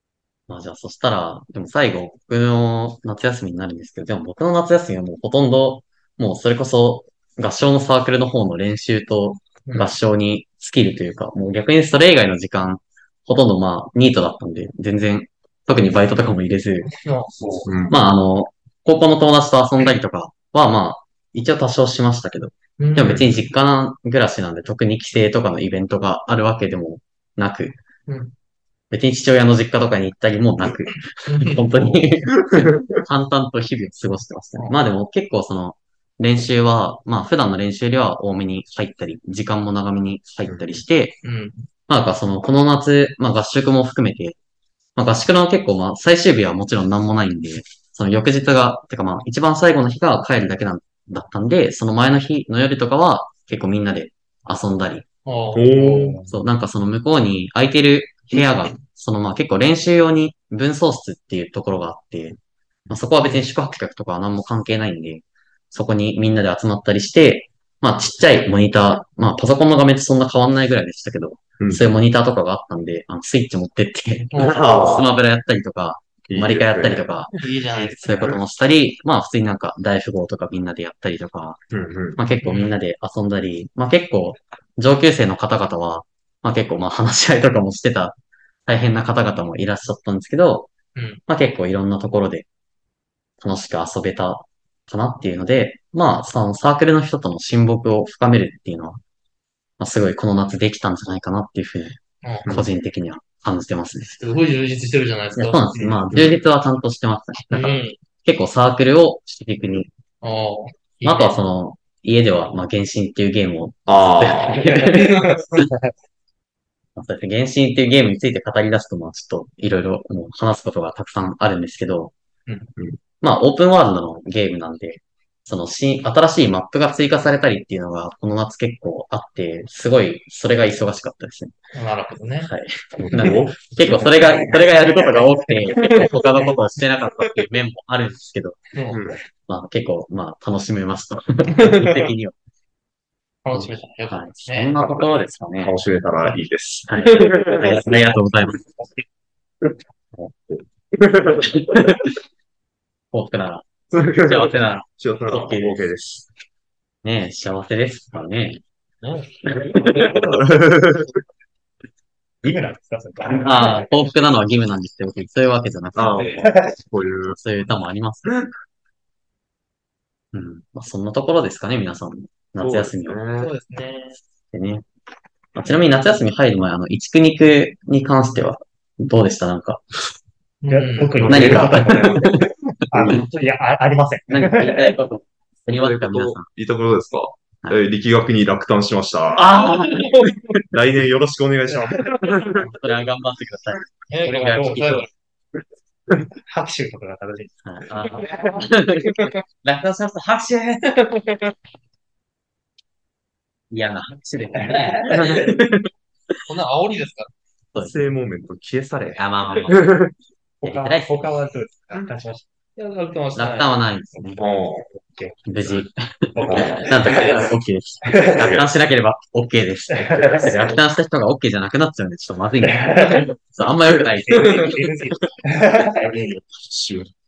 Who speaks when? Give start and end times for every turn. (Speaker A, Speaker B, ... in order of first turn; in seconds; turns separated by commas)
Speaker A: 0.5-16.9, Speaker B: 9.7-9.9, Speaker B: 16.9-17.7, Speaker C: 17.4-17.6, Speaker D: 17.6-18.0, Speaker A: 17.9-27.8, Speaker B: 22.8-23.2, Speaker D: 23.0-23.3, Speaker B: 28.1-28.3, Speaker A: 28.9-41.2, Speaker B: 31.2-31.7, Speaker D: 31.8-33.0, Speaker D: 40.4-40.8, Speaker B: 41.2-41.7, Speaker A: 41.9-44.4, Speaker A: 45.0-55.1, Speaker B: 55.2-56.2, Speaker D: 55.5-56.2, Speaker A: 56.3-62.4, Speaker A: 62.9-81.6, Speaker D: 71.6-71.8, Speaker B: 74.3-75.0, Speaker D: 74.4-75.1, Speaker D: 76.3-77.0, Speaker B: 77.3-78.4, Speaker D: 81.7-82.2, Speaker A: 82.2-90.7, Speaker B: 82.4-82.7, Speaker B: 91.0-91.2, Speaker A: 91.3-92.5, Speaker A: 93.4-99.0, Speaker A: 99.8-104.2, Speaker B: 104.1-106.0, Speaker A: 105.3-109.9, Speaker B: 107.5-108.0, Speaker B: 110.2-111.4, Speaker A: 111.0-115.7, Speaker D: 113.9-114.7, Speaker B: 114.6-115.6, Speaker A: 116.9-122.1, Speaker A: 123.2-131.5, Speaker B: 131.7-132.5, Speaker A: 132.4-138.6, Speaker D: 133.0-134.1, Speaker C: 134.1-135.3, Speaker B: 135.7-136.1, Speaker B: 138.7-139.0, Speaker D: 138.9-139.2, Speaker A: 139.5-142.3, Speaker B: 141.5-142.1, Speaker B: 143.4-144.7, Speaker A: 143.5-145.7, Speaker D: 144.8-147.9, Speaker A: 146.9-148.6, Speaker B: 147.0-147.6, Speaker D: 150.3-151.9, Speaker A: 151.5-152.1, Speaker A: 153.1-153.7, Speaker D: 153.9-156.2, Speaker A: 154.2-155.9, Speaker A: 157.0-158.6, Speaker B: 159.0-159.3, Speaker A: 159.4-160.1, Speaker C: 159.8-160.5, Speaker D: 160.0-161.2, Speaker C: 162.4-163.9, Speaker A: 163.3-166.6, Speaker B: 163.5-163.8, Speaker D: 165.9-167.4, Speaker C: 166.2-166.8, Speaker A: 167.3-168.4, Speaker A: 170.3-173.2, Speaker D: 172.6-173.5, Speaker B: 173.4-174.2, Speaker A: 174.5-174.8, Speaker A: 175.6-179.8, Speaker B: 180.6-181.2, Speaker C: 180.7-184.9, Speaker D: 181.2-182.3, Speaker A: 181.3-182.5, Speaker D: 182.9-183.2, Speaker A: 184.3-186.4, Speaker D: 185.7-189.5, Speaker A: 189.3-190.6, Speaker B: 189.6-190.4, Speaker D: 190.7-192.7, Speaker A: 192.6-195.1, Speaker B: 194.1-195.1, Speaker C: 194.3-195.0, Speaker C: 196.4-197.5, Speaker A: 197.6-200.8, Speaker B: 199.0-199.4, Speaker B: 200.9-201.5, Speaker A: 203.7-206.4, Speaker C: 204.5-205.5, Speaker B: 206.5-207.3, Speaker D: 207.8-210.1, Speaker A: 209.2-209.8, Speaker C: 210.6-212.4, Speaker A: 210.6-211.3, Speaker B: 212.8-213.7, Speaker A: 213.3-214.5, Speaker C: 214.1-215.4, Speaker D: 214.4-214.9, Speaker A: 215.4-224.9, Speaker C: 216.3-217.5, Speaker D: 216.5-216.8, Speaker C: 218.1-218.4, Speaker D: 218.4-218.7, Speaker C: 219.9-220.6, Speaker C: 222.6-223.3, Speaker C: 224.2-226.4, Speaker D: 226.5-227.1